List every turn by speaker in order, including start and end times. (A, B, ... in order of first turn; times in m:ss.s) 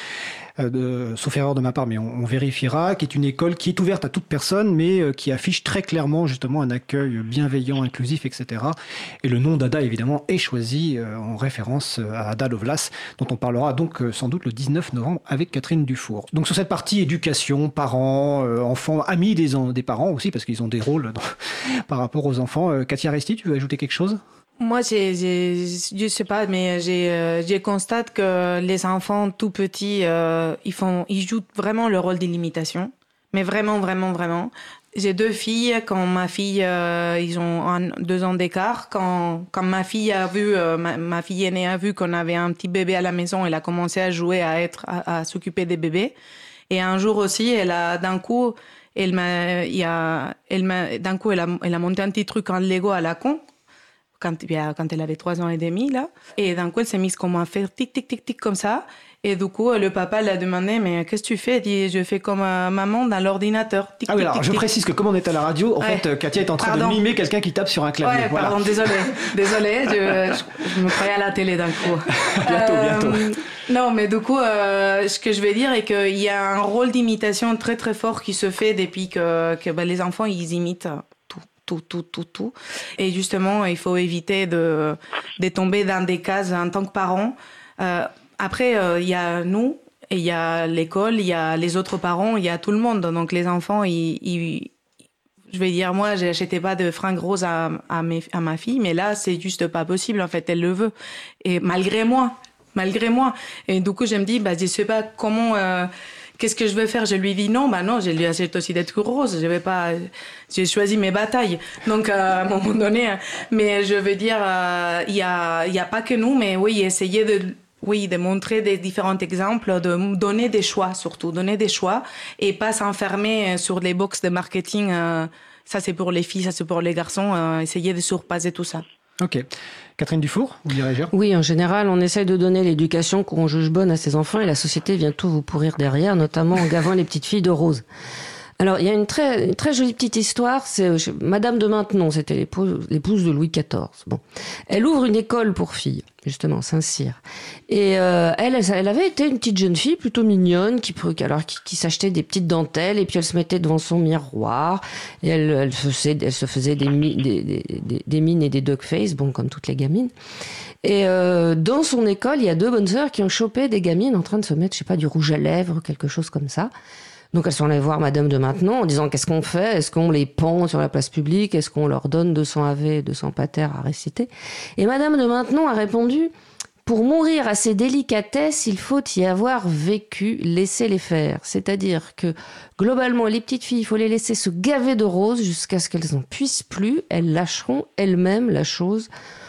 0:00.6-0:21.4 A
0:21.9-0:24.2 A
0:24.6-0:46.1 B
0:46.7-0:53.4 B
0:54.2-1:04.7 B
1:04.1-1:09.3 A
1:06.6-1:07.0 B
1:08.0-1:34.7 B
1:12.2-1:13.4 A
1:35.5-1:40.9 B
1:41.4-2:08.8 B
2:09.2-2:09.5 A
2:10.0-2:11.1 A
2:11.1-2:17.9 C
2:18.6-2:40.1 C
2:40.8-2:46.7 C
2:47.3-2:56.3 C
2:56.8-3:09.1 C